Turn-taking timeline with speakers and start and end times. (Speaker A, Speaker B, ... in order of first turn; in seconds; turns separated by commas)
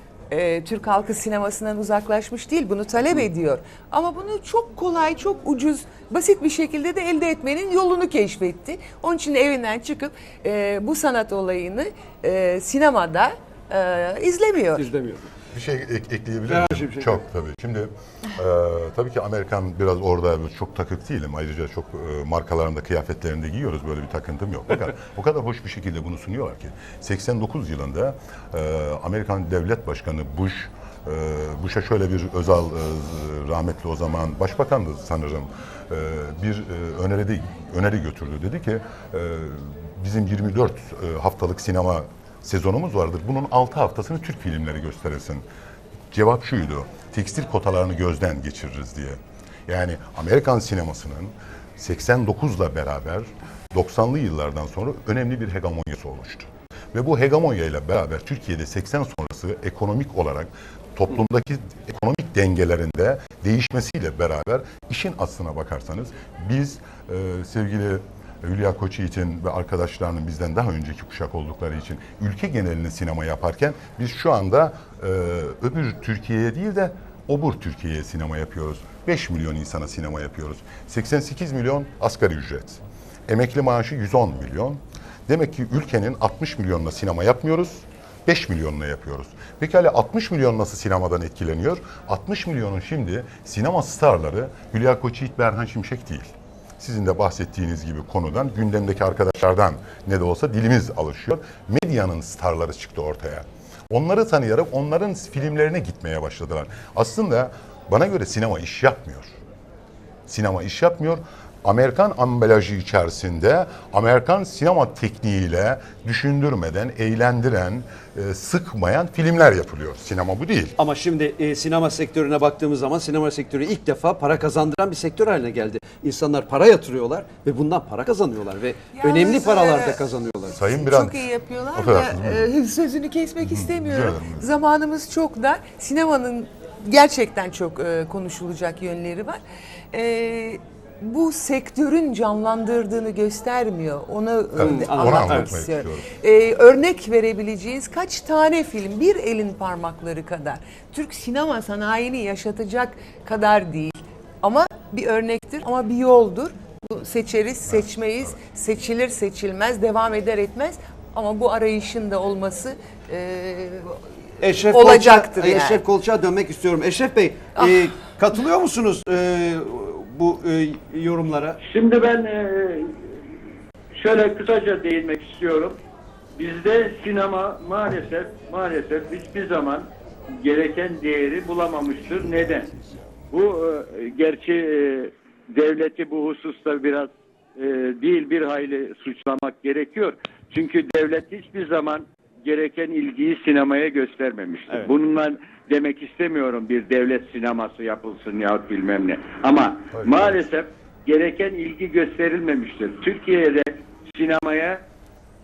Speaker A: 0.3-14.9, Speaker B: 14.8-15.3, Speaker C: 15.5-45.4, Speaker B: 16.5-17.2, Speaker C: 46.1-109.4, Speaker C: 110.3-120.8, Speaker B: 120.8-130.5, Speaker A: 128.9-130.0, Speaker C: 130.5-132.5, Speaker A: 130.6-139.4, Speaker C: 133.4-134.5, Speaker A: 139.9-164.0, Speaker C: 144.6-146.1, Speaker B: 144.6-145.5, Speaker B: 164.4-171.6, Speaker A: 164.6-165.8, Speaker A: 167.6-167.9, Speaker D: 171.6-173.0, Speaker D: 173.9-175.8, Speaker D: 176.3-179.9, Speaker D: 180.4-182.7, Speaker D: 183.3-204.8, Speaker C: 199.9-200.4